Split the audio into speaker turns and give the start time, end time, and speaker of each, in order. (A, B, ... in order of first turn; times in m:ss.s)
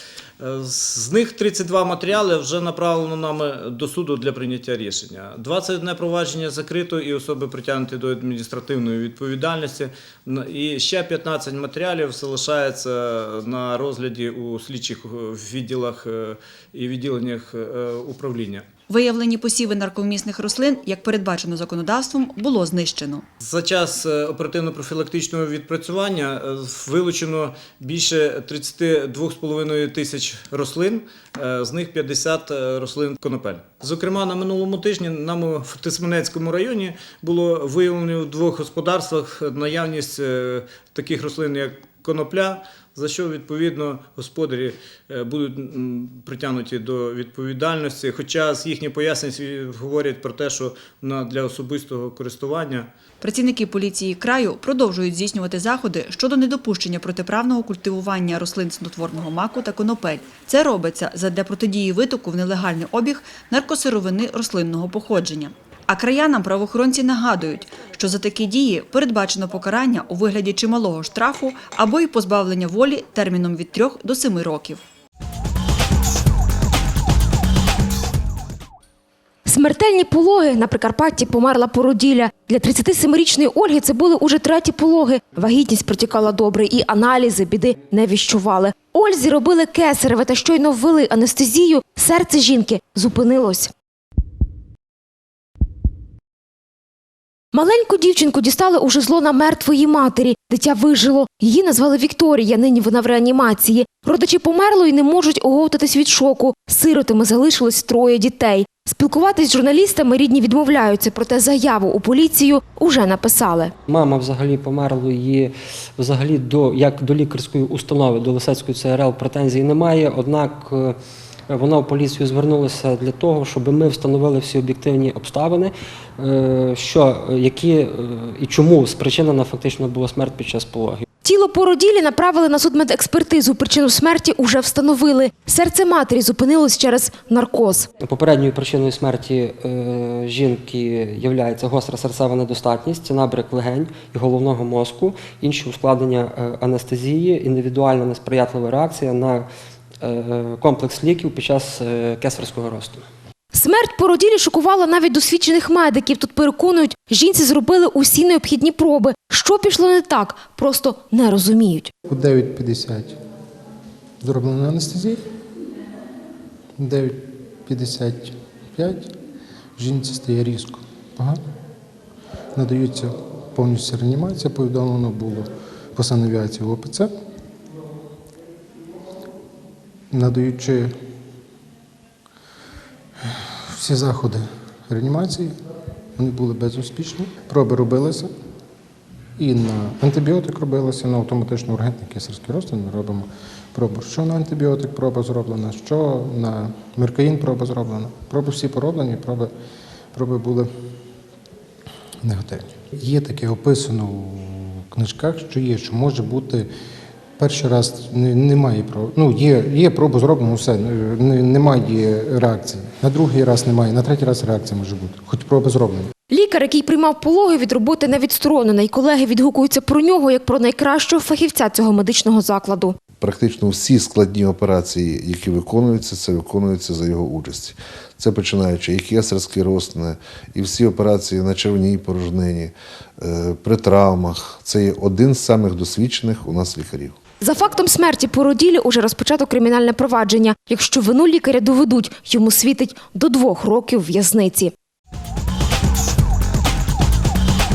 0:00.4-0:18.7 A
0:18.9-0:23.2 B
0:23.4-0:52.9 A
0:53.2-1:14.8 B
1:19.4-1:33.7 C
1:37.5-1:53.7 C
1:53.9-2:01.0 D
2:01.5-2:11.0 D
2:11.2-2:17.9 C
2:18.0-2:29.5 D
2:30.0-2:33.1 D
2:33.5-2:41.9 C
2:42.0-2:43.2 E
2:44.2-2:45.2 E
2:46.8-2:49.1 E
2:49.8-2:51.4 E
2:52.5-2:57.1 E
3:00.1-3:00.9 E
3:03.4-3:05.5 E
3:06.2-3:08.3 E
3:09.4-3:19.5 E
3:20.1-3:20.7 E
3:22.2-3:26.7 E
3:27.4-3:36.1 E
3:36.3-3:43.0 C
3:43.2-3:57.2 F
3:57.4-4:04.7 C